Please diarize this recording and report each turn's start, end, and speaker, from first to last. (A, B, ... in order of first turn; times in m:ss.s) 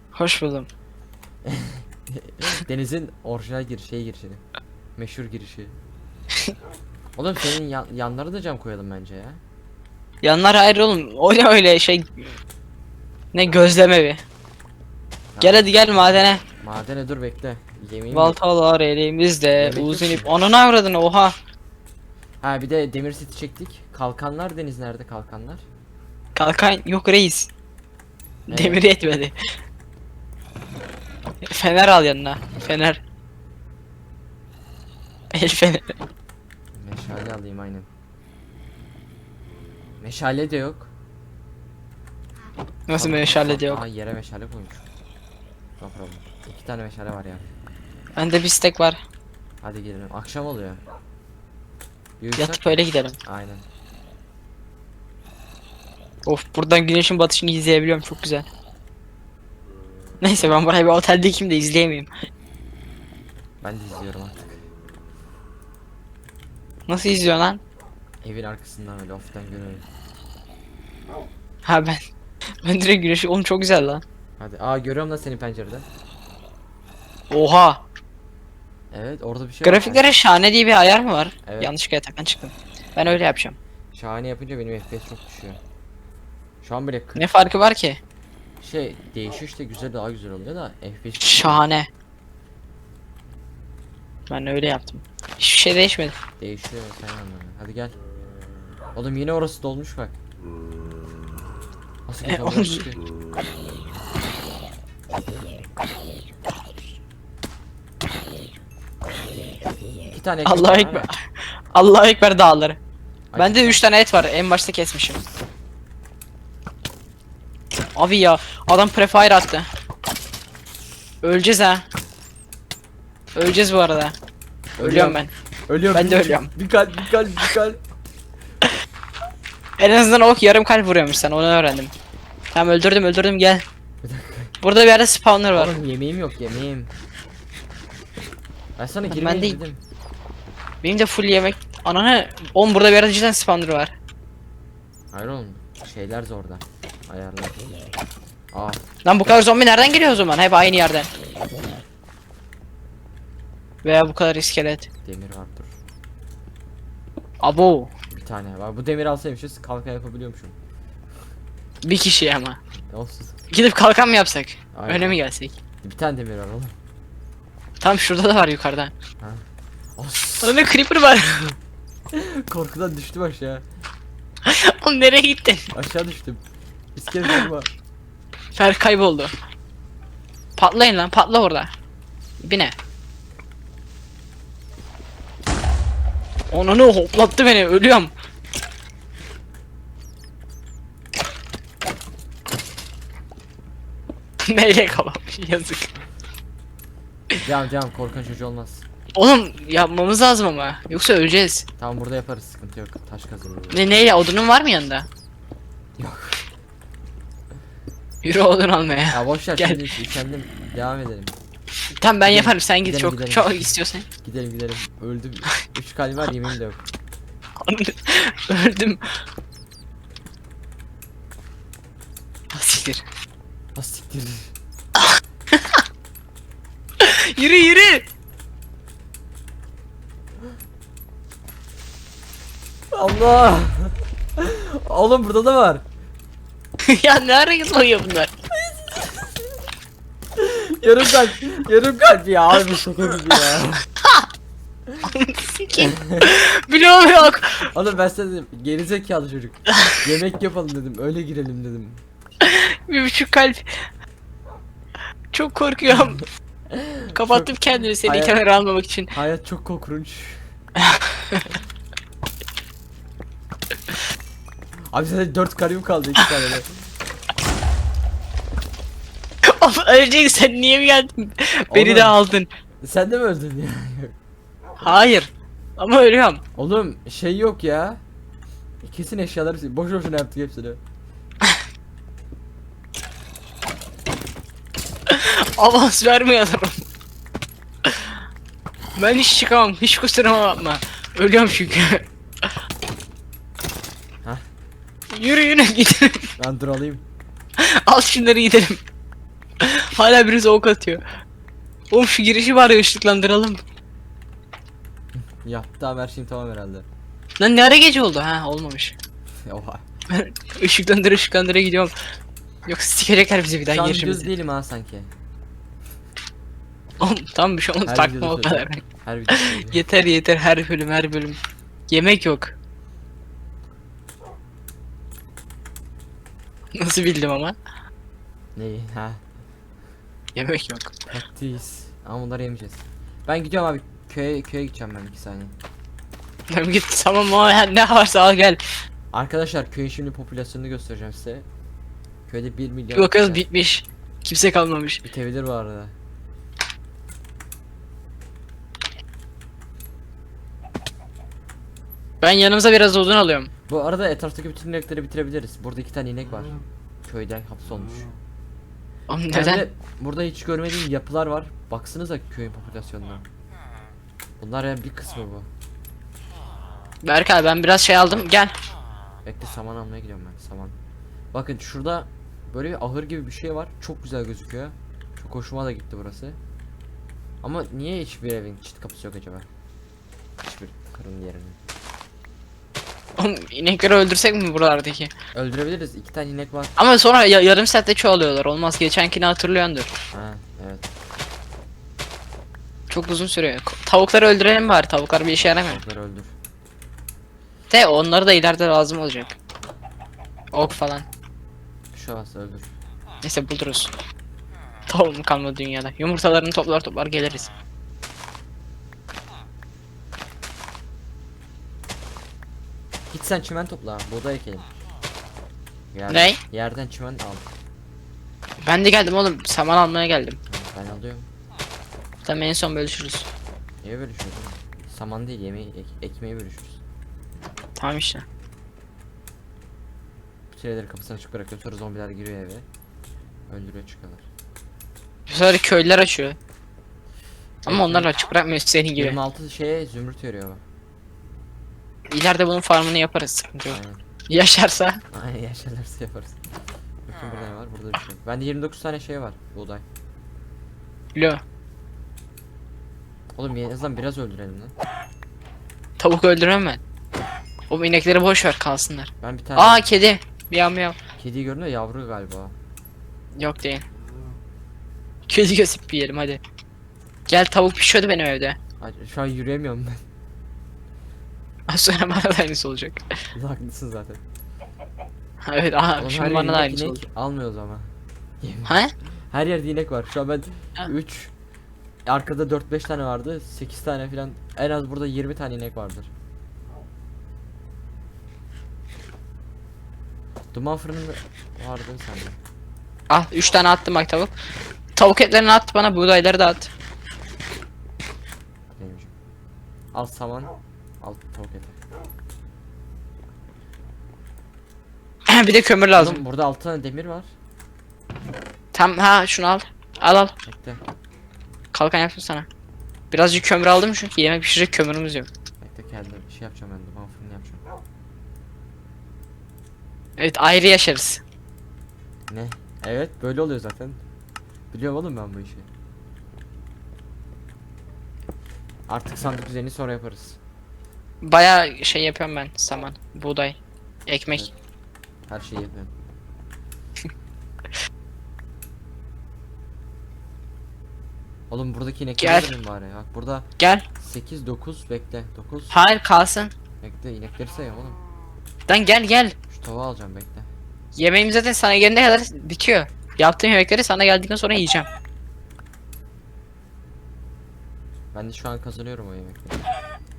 0:00.1-0:00.7 A
0:01.4-0:04.4 B
0:05.0-0:05.8 B
0:07.2-0:09.4 B
0:10.2-0:12.4 A
0:13.3-0:14.2 A
0:15.3-0:15.8 B
0:15.4-0:16.4 A
0:16.6-0:18.4 B
0:18.1-0:21.4 A
0:19.5-0:20.3 B
0:22.4-0:25.6 B
0:26.4-0:27.5 A
0:28.5-0:28.8 B
0:28.5-0:29.4 A
0:31.4-0:33.0 A
0:35.3-0:36.0 A
0:36.7-0:37.9 B
0:40.0-0:40.9 B
0:42.9-0:43.8 A
0:43.0-0:44.9 B
0:45.8-0:47.5 B
0:48.2-0:49.0 A
0:49.6-0:50.8 B
0:52.2-0:53.6 B
0:52.4-0:53.2 A
0:56.2-0:58.5 A
1:00.2-1:02.1 A
1:03.6-1:04.6 B
1:06.9-1:07.6 A
1:08.2-1:09.9 B
1:11.6-1:12.0 A
1:12.6-1:14.0 A
1:14.4-1:15.9 B
1:17.3-1:17.8 A
1:18.9-1:20.1 B
1:19.6-1:23.6 A
1:21.4-1:21.7 B
1:23.9-1:25.6 B
1:26.6-1:27.3 B
1:27.2-1:28.0 A
1:28.6-1:31.7 B
1:31.2-1:31.9 A
1:34.3-1:36.2 A
1:36.4-1:38.0 B
1:39.0-1:40.2 B
1:42.1-1:43.0 B
1:42.2-1:42.9 A
1:50.1-1:51.1 B
1:50.4-1:51.2 A
1:51.7-1:52.8 A
1:53.3-1:53.8 B
1:53.4-1:55.2 A
1:58.0-1:59.7 A
2:01.2-2:01.9 A
2:03.4-2:04.2 A
2:04.8-2:07.8 B
2:04.8-2:05.3 A
2:05.9-2:06.5 A
2:09.8-2:11.9 A
2:12.5-2:13.7 A
2:14.0-2:14.6 B
2:14.6-2:15.7 A
2:15.5-2:16.9 B
2:18.8-2:19.8 B
2:19.1-2:19.6 A
2:20.8-2:24.0 A
2:25.1-2:27.6 B
2:28.5-2:28.8 B
2:29.0-2:31.1 A
2:33.8-2:34.9 A
2:35.0-2:35.8 B
2:37.4-2:37.9 A
2:38.1-2:40.6 B
2:41.8-2:42.6 A
2:42.9-2:43.4 B
2:43.5-2:45.6 A
2:44.7-2:45.2 B
2:45.8-2:46.8 B
2:47.8-2:48.9 A
2:49.2-2:50.7 B
2:50.4-2:51.4 A
2:51.2-2:51.6 B
2:52.1-2:53.6 B
2:54.4-2:55.7 A
2:55.7-2:56.4 B
2:57.0-2:57.7 B
2:58.5-2:59.3 A
3:00.6-3:01.7 A
3:02.4-3:02.8 A
3:06.5-3:08.1 A
3:14.4-3:15.9 A
3:17.4-3:18.9 B
3:19.2-3:21.6 A
3:21.8-3:23.8 B
3:23.7-3:25.1 A
3:26.0-3:26.5 B
3:28.2-3:29.8 A
3:29.1-3:31.3 B
3:32.0-3:34.1 A
3:32.3-3:33.6 B
3:34.2-3:36.8 B
3:37.6-3:39.2 A
3:42.5-3:43.0 A
3:43.8-3:44.5 B
3:45.5-3:45.8 A
3:47.0-3:48.1 A
3:52.9-3:55.8 B
3:56.8-3:58.3 A
3:58.5-3:59.3 B
4:00.4-4:03.9 B
4:04.0-4:04.3 A
4:05.1-4:07.7 A
4:05.8-4:06.3 B
4:07.6-4:12.0 B
4:12.4-4:13.9 A
4:15.3-4:16.2 A
4:16.7-4:18.4 B
4:17.1-4:19.1 A
4:19.1-4:20.4 B
4:20.8-4:21.5 A
4:24.9-4:26.8 B
4:29.4-4:32.5 A
4:31.7-4:32.2 B
4:32.8-4:34.2 B
4:34.8-4:36.4 A
4:36.6-4:38.0 B
4:38.8-4:40.8 B
4:45.1-4:46.8 A
4:47.8-4:48.2 A
4:49.0-4:52.6 A
4:55.1-4:56.3 A
4:56.4-4:57.0 B
4:57.6-4:58.8 A
4:59.6-5:01.0 A
5:01.9-5:03.6 A
5:05.2-5:06.9 B
5:07.4-5:09.0 A
5:09.4-5:09.8 B
5:10.1-5:11.9 A
5:12.6-5:14.3 A
5:13.7-5:15.1 B
5:17.0-5:22.5 A
5:17.9-5:19.8 B
5:26.7-5:27.6 A
5:28.6-5:29.2 B
5:30.4-5:30.9 A
5:31.1-5:35.6 B
5:36.5-5:38.6 A
5:39.1-5:41.5 B
5:42.3-5:43.4 B
5:43.0-5:45.0 A
5:45.0-5:46.0 B
5:52.2-5:53.5 A
5:53.7-5:58.1 B
5:59.1-5:59.6 A
5:59.3-6:03.3 B
6:04.4-6:05.5 B
6:07.0-6:08.6 A
6:09.2-6:10.8 B
6:11.3-6:16.4 B
6:17.4-6:19.5 B
6:20.4-6:21.6 B
6:23.2-6:25.1 A
6:25.3-6:26.8 B
6:26.8-6:30.0 A
6:30.1-6:30.9 B
6:32.9-6:35.8 A
6:35.4-6:36.3 B
6:37.7-6:39.4 A
6:40.5-6:41.1 A
6:41.9-6:42.7 B
6:43.2-6:43.9 A
6:44.9-6:47.5 A
6:53.1-6:54.7 B
6:55.9-6:57.5 B
6:56.1-6:56.4 A
6:58.6-7:00.4 A
7:00.5-7:01.3 B
7:02.2-7:03.3 A
7:03.8-7:06.8 B
7:07.8-7:08.3 A
7:10.5-7:12.6 B
7:13.5-7:14.2 B
7:15.3-7:16.4 A
7:17.7-7:18.1 B
7:17.7-7:19.2 A
7:19.0-7:20.6 B
7:22.1-7:25.0 A
7:23.7-7:24.0 B
7:25.1-7:26.4 B
7:27.0-7:29.8 B
7:31.2-7:31.4 A
7:33.4-7:34.7 B
7:36.0-7:36.8 A
7:37.7-7:41.0 A
7:39.2-7:39.9 B
7:41.2-7:42.6 B
7:43.3-7:43.9 A
7:45.3-7:46.4 A
7:47.3-7:48.6 A
7:48.8-7:50.0 B
7:51.7-7:53.1 A
7:53.4-7:54.2 B
7:55.4-7:57.0 A
7:56.0-7:58.8 B
7:58.7-7:58.9 A
7:59.3-8:01.3 B
8:02.1-8:06.1 B
8:10.5-8:12.4 B
8:13.1-8:14.3 A
8:15.0-8:16.7 A
8:18.7-8:19.1 B
8:19.9-8:21.8 B
8:25.3-8:26.2 A
8:26.0-8:27.3 B
8:28.7-8:30.3 A
8:30.5-8:30.8 B
8:31.7-8:32.5 A
8:33.1-8:35.3 A
8:35.6-8:37.6 B
8:40.2-8:41.2 A
8:42.3-8:44.0 B
8:44.7-8:45.7 B
8:48.9-8:50.4 B
8:51.2-8:54.5 A
8:55.3-8:55.9 B
9:01.5-9:05.8 B
9:02.2-9:02.5 A
9:03.6-9:03.9 A
9:05.7-9:06.5 A
9:06.8-9:08.0 B
9:08.7-9:09.4 A
9:09.5-9:10.5 B
9:10.9-9:14.9 A
9:18.1-9:19.6 B